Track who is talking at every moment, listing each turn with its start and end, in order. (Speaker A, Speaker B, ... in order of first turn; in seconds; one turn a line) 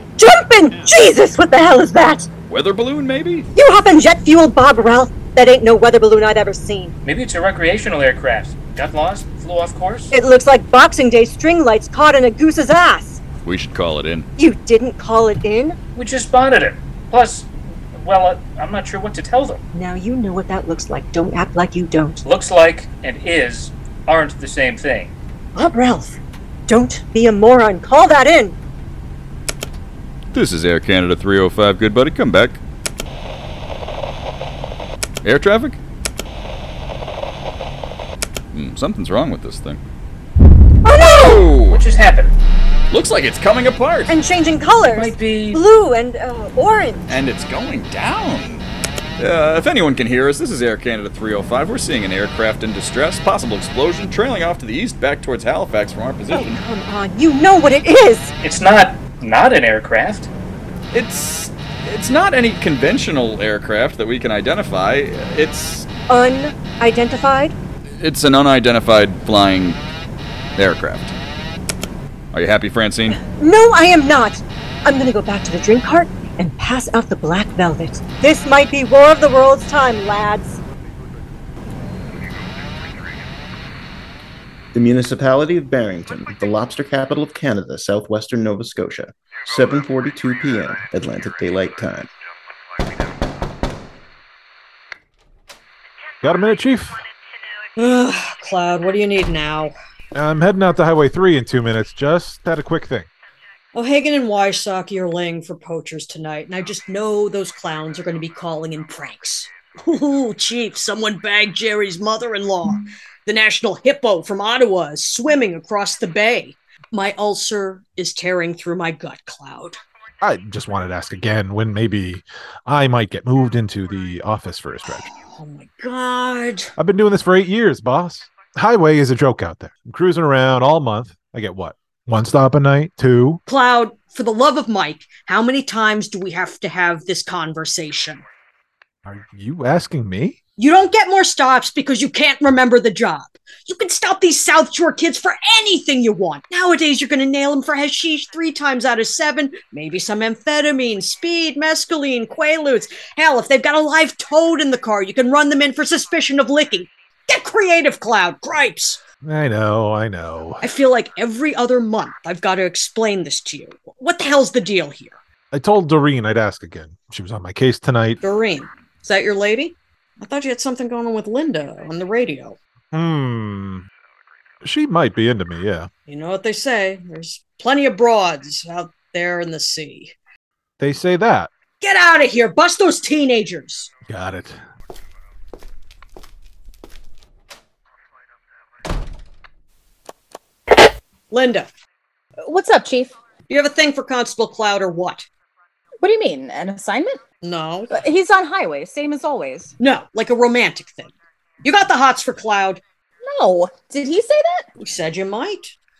Speaker A: 0.2-2.3
Speaker B: 2.5-3.5
Speaker A: 3.5-6.9
Speaker C: 7.0-10.1
Speaker A: 10.1-13.2
Speaker B: 13.4-14.3
Speaker A: 14.4-15.8
Speaker C: 15.9-19.6
Speaker A: 19.7-22.2
Speaker C: 22.2-25.1
Speaker A: 25.5-26.2
Speaker A: 26.7-28.6
Speaker B: 30.3-32.6
Speaker B: 35.2-35.8
Speaker B: 38.5-39.8
Speaker A: 40.8-41.6
Speaker B: 41.0-41.8
Speaker C: 41.7-42.3
Speaker B: 42.9-44.2
Speaker A: 44.1-47.2
Speaker C: 44.9-45.6
Speaker B: 47.1-48.6
Speaker B: 49.2-56.6
Speaker A: 56.3-58.3
Speaker C: 58.4-60.3
Speaker B: 60.9-65.9
Speaker A: 66.1-67.5
Speaker B: 68.0-69.8
Speaker B: 70.5-71.1
Speaker B: 72.3-73.2
Speaker A: 73.3-80.6
Speaker D: 84.7-92.1
Speaker E: 96.2-97.0
Speaker F: 97.8-99.7
Speaker E: 100.1-103.1
Speaker F: 103.7-119.8
Speaker E: 120.2-125.1
Speaker F: 125.2-126.7
Speaker E: 126.8-133.4
Speaker F: 133.4-138.2
Speaker E: 139.0-140.4
Speaker F: 140.6-159.0
Speaker E: 159.2-160.6
Speaker F: 160.6-165.2
Speaker E: 165.5-168.2
Speaker F: 168.2-172.6
Speaker E: 172.9-173.8
Speaker E: 174.6-175.9
Speaker F: 176.1-180.1
Speaker E: 180.8-181.5
Speaker F: 181.8-183.9
Speaker E: 184.1-184.6
Speaker F: 191.3-191.7
Speaker G: 192.4-193.1
Speaker F: 193.5-195.3
Speaker G: 196.0-197.2
Speaker F: 197.4-197.9
Speaker G: 197.9-199.7
Speaker F: 199.8-202.8
Speaker G: 203.2-204.7
Speaker F: 204.8-205.7